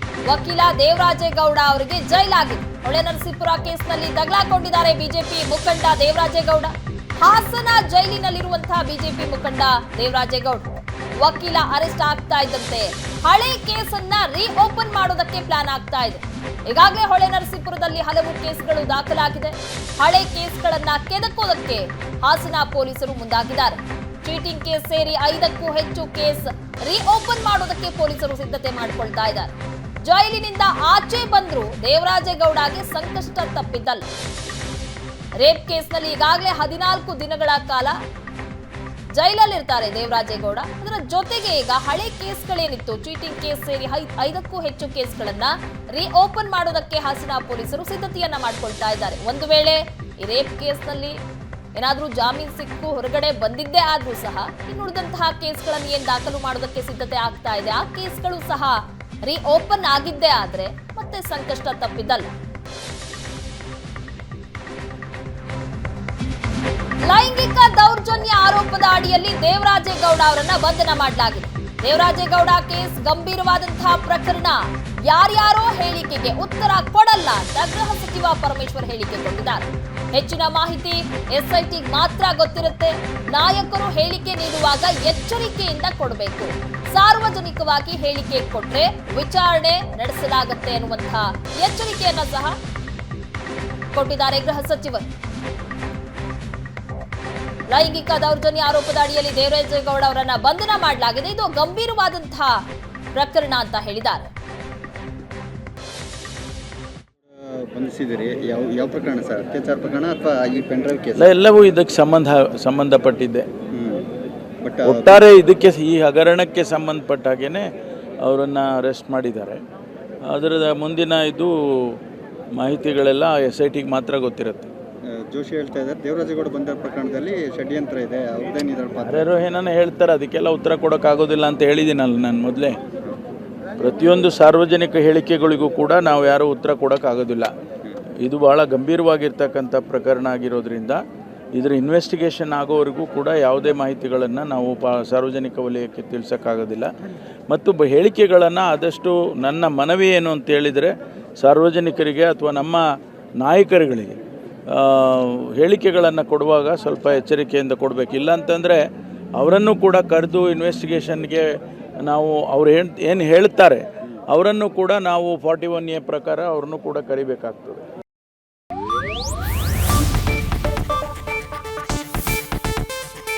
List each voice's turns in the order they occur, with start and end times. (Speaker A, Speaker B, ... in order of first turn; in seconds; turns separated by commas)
Speaker A: 0.2-10.7, Speaker A: 11.2-29.5, Speaker A: 30.0-34.0, Speaker A: 35.4-38.0, Speaker A: 39.1-51.2, Speaker A: 51.8-62.3, Speaker A: 67.0-92.6, Speaker A: 93.9-95.1, Speaker A: 97.7-104.3, Speaker B: 107.5-111.3, Speaker C: 111.2-113.5, Speaker B: 113.7-114.0, Speaker B: 114.6-115.2, Speaker C: 114.8-117.7, Speaker C: 118.2-119.6, Speaker C: 120.3-122.0, Speaker C: 122.6-124.7, Speaker B: 125.2-129.3, Speaker C: 129.0-132.8, Speaker C: 133.8-137.5, Speaker C: 138.2-141.0, Speaker C: 141.6-146.9, Speaker C: 147.5-152.8, Speaker C: 153.4-154.2, Speaker C: 154.7-158.8, Speaker C: 159.4-161.4, Speaker C: 162.0-167.8